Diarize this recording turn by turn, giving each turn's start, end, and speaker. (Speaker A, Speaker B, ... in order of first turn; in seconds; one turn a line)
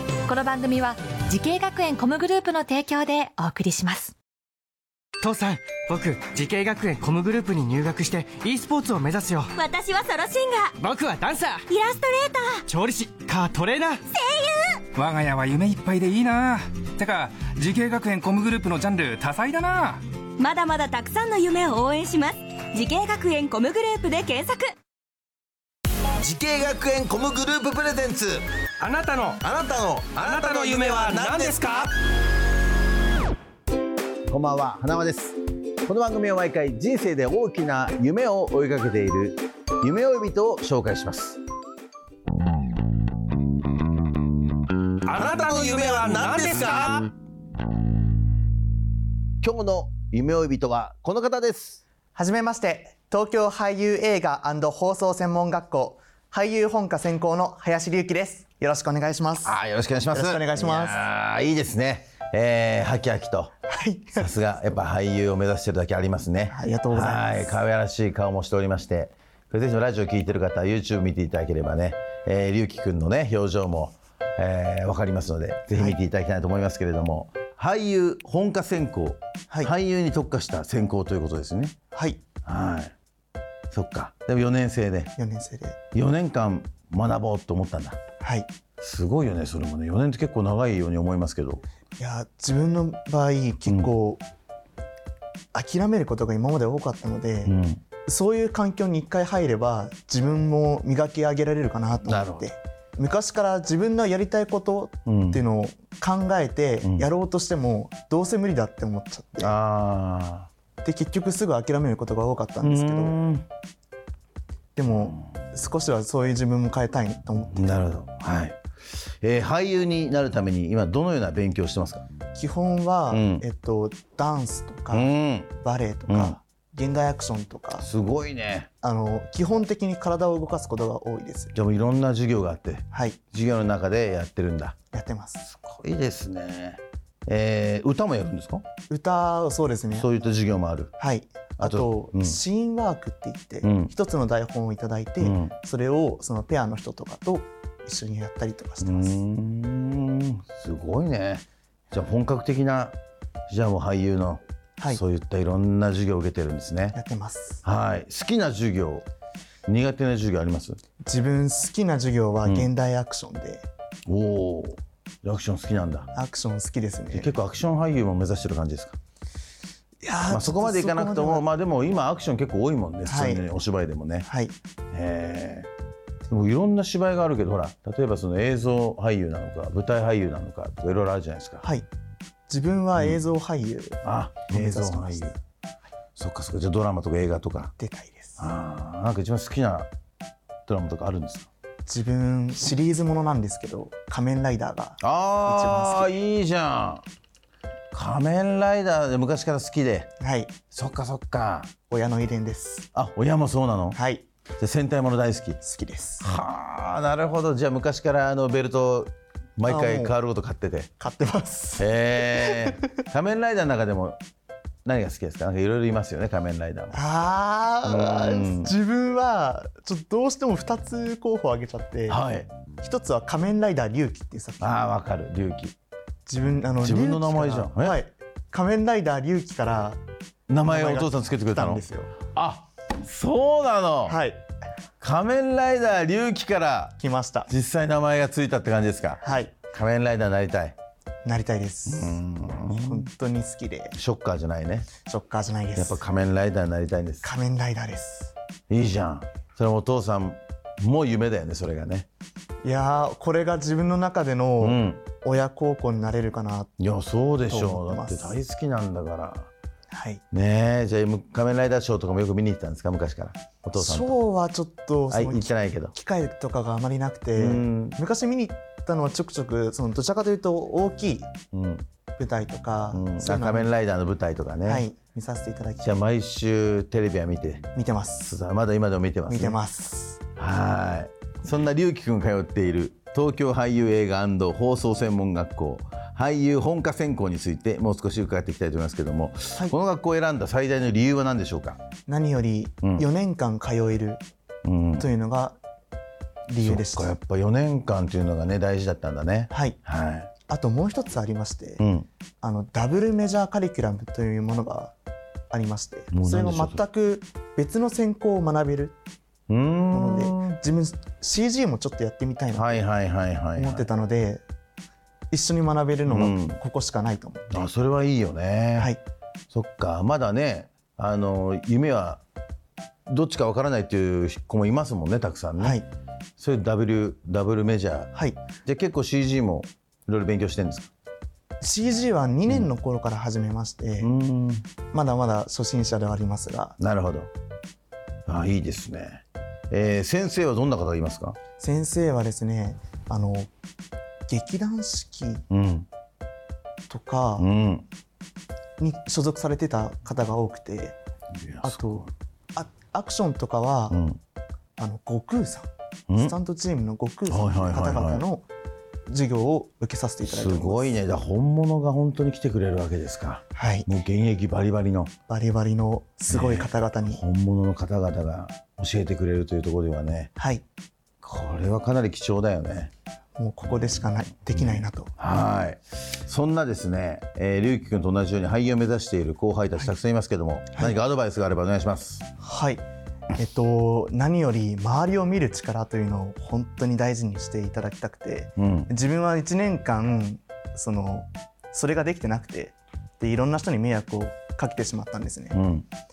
Speaker A: 0.3-4.1
Speaker B: 5.2-9.5
Speaker C: 9.6-10.7
Speaker B: 10.8-11.6
Speaker C: 11.8-12.4
Speaker B: 12.7-14.0
Speaker D: 14.9-20.0
Speaker C: 20.4-24.5
Speaker E: 26.2-28.4
Speaker D: 28.8-29.5
Speaker E: 29.4-31.9
Speaker D: 30.1-31.9
Speaker F: 34.3-41.4
Speaker D: 45.1-47.0
Speaker E: 45.3-46.9
Speaker F: 49.4-51.8
Speaker G: 52.1-59.6
Speaker F: 59.4-63.5
Speaker G: 60.1-61.0
Speaker G: 63.7-64.3
Speaker F: 64.2-81.8
Speaker G: 66.5-67.4
Speaker G: 81.9-82.2
Speaker F: 82.5-82.9
Speaker F: 83.7-85.1
Speaker G: 85.2-85.8
Speaker F: 85.9-88.0
Speaker G: 88.2-88.5
Speaker F: 88.8-91.6
Speaker G: 92.0-94.2
Speaker G: 95.5-97.5
Speaker F: 97.5-97.8
Speaker G: 98.1-109.5
Speaker F: 102.0-102.5
Speaker F: 105.1-105.4
Speaker F: 109.4-110.5
Speaker G: 110.8-113.2
Speaker F: 112.6-113.5
Speaker G: 114.8-117.8
Speaker F: 117.5-122.1
Speaker G: 122.3-127.9
Speaker F: 123.1-123.4
Speaker F: 124.9-125.5
Speaker F: 126.1-126.4
Speaker F: 127.8-128.7
Speaker G: 128.8-131.5
Speaker F: 131.6-134.8
Speaker G: 132.9-133.2
Speaker G: 134.9-135.4
Speaker F: 135.4-138.6
Speaker G: 138.9-140.1
Speaker F: 139.9-140.9
Speaker G: 141.0-149.2
Speaker F: 141.6-142.4
Speaker F: 143.6-143.9
Speaker F: 145.2-145.5
Speaker F: 148.8-153.0
Speaker F: 153.5-157.0
Speaker G: 156.9-157.6
Speaker F: 157.6-159.1
Speaker F: 159.7-160.8
Speaker G: 161.0-163.6
Speaker F: 164.1-166.1
Speaker G: 166.1-167.3
Speaker F: 167.1-169.0
Speaker G: 170.0-171.5
Speaker F: 170.3-174.3
Speaker G: 173.1-173.5
Speaker G: 174.2-174.6
Speaker F: 174.9-175.7
Speaker F: 176.3-181.6
Speaker G: 181.6-181.9
Speaker G: 182.5-185.3
Speaker F: 184.0-185.4
Speaker F: 186.2-187.7
Speaker G: 187.8-188.4
Speaker F: 188.4-189.9
Speaker F: 190.7-191.5
Speaker G: 191.9-196.1
Speaker F: 195.0-197.0
Speaker F: 197.9-200.1
Speaker G: 200.2-200.5
Speaker F: 200.7-201.7
Speaker G: 201.9-202.9
Speaker F: 202.9-204.0
Speaker G: 203.9-204.2
Speaker F: 204.6-205.6
Speaker G: 205.6-206.3
Speaker F: 206.2-210.9
Speaker G: 209.6-210.1
Speaker G: 211.0-212.7
Speaker F: 211.8-214.2
Speaker F: 214.8-217.0
Speaker G: 216.9-222.2
Speaker F: 217.8-218.7
Speaker F: 222.1-222.5
Speaker G: 222.8-224.9
Speaker F: 224.6-225.8
Speaker G: 226.3-230.0
Speaker F: 226.8-228.0
Speaker F: 230.5-234.2
Speaker G: 230.6-232.1
Speaker G: 234.1-234.4
Speaker F: 235.0-240.8
Speaker G: 237.0-237.5
Speaker G: 239.2-239.6
Speaker G: 241.2-242.2
Speaker F: 241.9-243.1
Speaker G: 242.7-243.9
Speaker F: 243.9-244.9
Speaker G: 245.1-246.0
Speaker F: 245.8-247.3
Speaker G: 247.2-248.3
Speaker F: 248.7-252.1
Speaker G: 252.6-256.7
Speaker F: 254.6-255.0
Speaker F: 256.8-259.5
Speaker G: 257.4-258.4
Speaker G: 259.9-260.2
Speaker F: 260.3-264.2
Speaker G: 263.8-271.3
Speaker F: 265.1-265.9
Speaker F: 267.4-268.0
Speaker F: 271.5-271.9
Speaker G: 272.2-273.7
Speaker F: 272.9-274.9
Speaker G: 274.7-276.0
Speaker F: 275.8-277.7
Speaker G: 277.7-278.3
Speaker F: 278.2-279.6
Speaker G: 279.3-280.2
Speaker F: 280.4-291.8
Speaker G: 292.1-294.2
Speaker F: 294.6-295.1
Speaker G: 295.0-295.6
Speaker G: 296.5-297.1
Speaker F: 296.6-300.3
Speaker G: 299.5-299.8
Speaker G: 300.5-301.8
Speaker F: 301.8-302.1
Speaker G: 302.4-304.9
Speaker G: 305.5-309.0
Speaker F: 306.1-306.8
Speaker F: 309.5-310.6
Speaker G: 309.9-312.7
Speaker F: 312.5-313.9
Speaker G: 313.6-314.4
Speaker G: 315.3-317.7
Speaker F: 316.1-316.6
Speaker F: 317.5-318.9
Speaker F: 319.5-322.2
Speaker F: 323.1-325.8
Speaker G: 325.6-325.9
Speaker F: 326.4-330.9
Speaker G: 328.1-328.4
Speaker G: 331.6-334.1
Speaker F: 334.0-334.7
Speaker G: 334.9-336.8
Speaker F: 336.8-337.3
Speaker F: 338.3-341.4
Speaker G: 341.6-343.5
Speaker G: 344.3-345.4
Speaker F: 345.5-345.9
Speaker G: 346.9-347.5
Speaker F: 347.4-347.9
Speaker G: 348.8-351.0
Speaker F: 351.4-352.1
Speaker G: 351.6-354.0
Speaker F: 353.9-354.2
Speaker G: 354.8-358.5
Speaker F: 356.1-356.4
Speaker F: 357.3-358.2
Speaker G: 359.1-361.0
Speaker F: 360.2-365.1
Speaker G: 363.6-363.9
Speaker G: 365.3-367.2
Speaker F: 366.3-370.3
Speaker G: 370.4-370.6
Speaker F: 371.2-372.9
Speaker G: 373.4-375.1
Speaker F: 374.6-382.3
Speaker G: 382.4-382.8
Speaker G: 383.4-395.6
Speaker F: 388.6-388.9
Speaker F: 395.5-395.9